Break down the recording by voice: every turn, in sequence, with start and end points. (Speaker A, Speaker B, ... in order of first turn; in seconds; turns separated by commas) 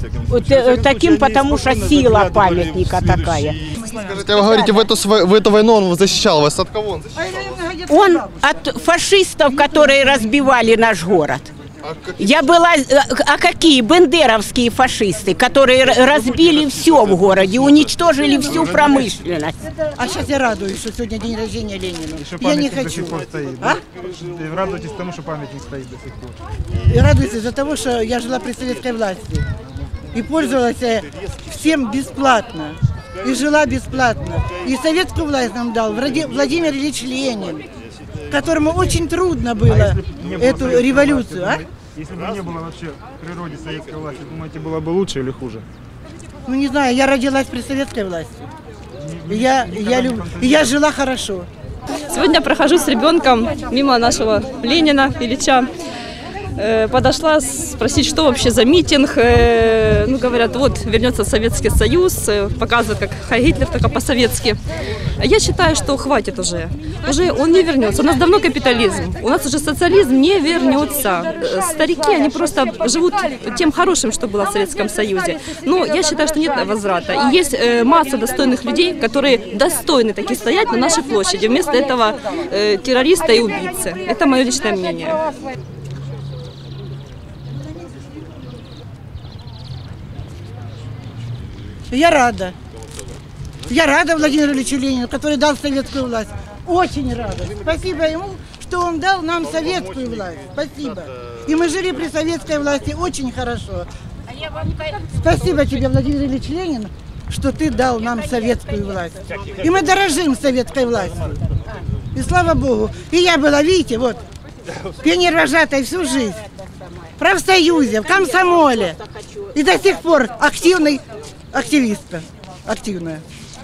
Speaker A: 0.3-3.6, Speaker B: 3.8-4.8, Speaker C: 4.2-7.1, Speaker B: 7.1-8.6, Speaker A: 7.9-11.5, Speaker B: 9.5-10.2, Speaker A: 12.2-19.7, Speaker B: 19.8-23.8, Speaker D: 22.2-26.4, Speaker B: 26.8-29.4, Speaker B: 30.1-37.6, Speaker B: 38.3-41.6, Speaker D: 39.7-45.6, Speaker B: 46.5-48.5, Speaker D: 49.0-50.7, Speaker B: 49.3-51.5, Speaker E: 52.1-55.7, Speaker E: 56.5-64.6, Speaker E: 65.2-85.2, Speaker B: 91.9-92.5, Speaker B: 93.6-103.9, Speaker B: 104.9-111.4, Speaker B: 112.1-114.2, Speaker B: 115.0-116.4, Speaker B: 117.2-119.0, Speaker B: 119.5-123.2